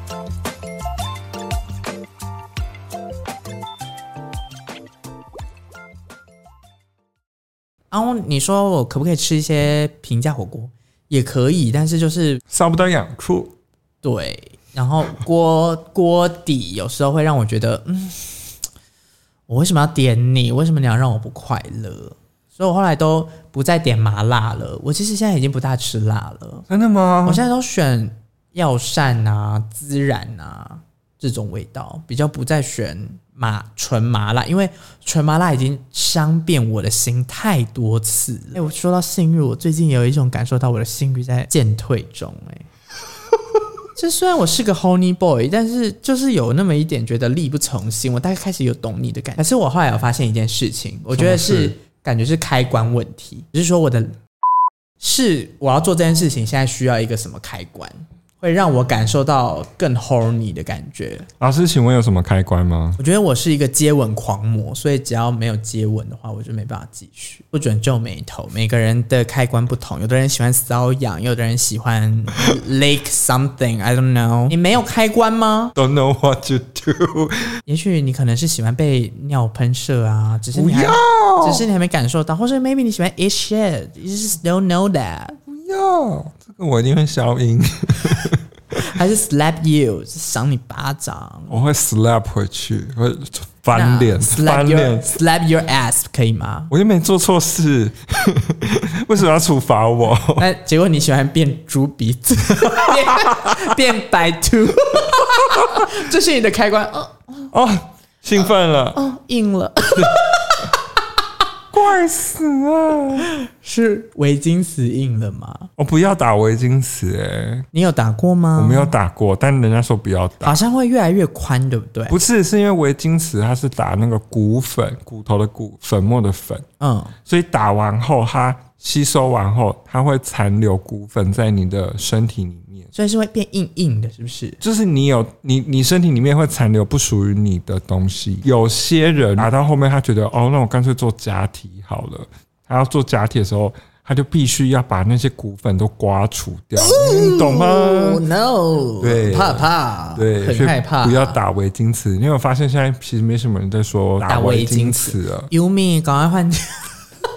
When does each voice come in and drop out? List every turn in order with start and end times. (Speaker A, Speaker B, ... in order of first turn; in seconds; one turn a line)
Speaker A: 7.9-12.4
Speaker B: 12.5-13.5
Speaker A: 14.0-18.5
Speaker A: 19.5-26.6
Speaker B: 26.7-27.4
Speaker A: 27.2-42.7
Speaker A: 44.0-54.2
Speaker B: 51.1-51.7
Speaker A: 55.0-61.3
Speaker B: 61.4-63.0
Speaker A: 63.0-75.7
Speaker B: 75.7-77.5
Speaker A: 77.7-85.4
Speaker B: 80.5-81.7
Speaker B: 85.5-88.8
Speaker A: 88.7-91.5
Speaker B: 91.5-95.2
Speaker A: 93.7-96.7
Speaker B: 96.7-100.5
Speaker A: 100.4-107.5
Speaker B: 102.7-103.7
Speaker B: 105.6-105.9
Speaker B: 107.5-109.0
Speaker A: 108.9-110.8
Speaker B: 111.7-113.3
Speaker A: 113.4-115.7
Speaker B: 115.8-117.7
Speaker A: 117.7-118.9
Speaker B: 118.5-120.6
Speaker A: 120.4-122.2
Speaker B: 122.1-126.6
Speaker A: 126.8-127.1
Speaker B: 127.2-132.9
Speaker A: 132.9-134.6
Speaker B: 134.6-148.2
Speaker A: 146.8-151.4
Speaker B: 149.0-155.5
Speaker A: 154.2-156.9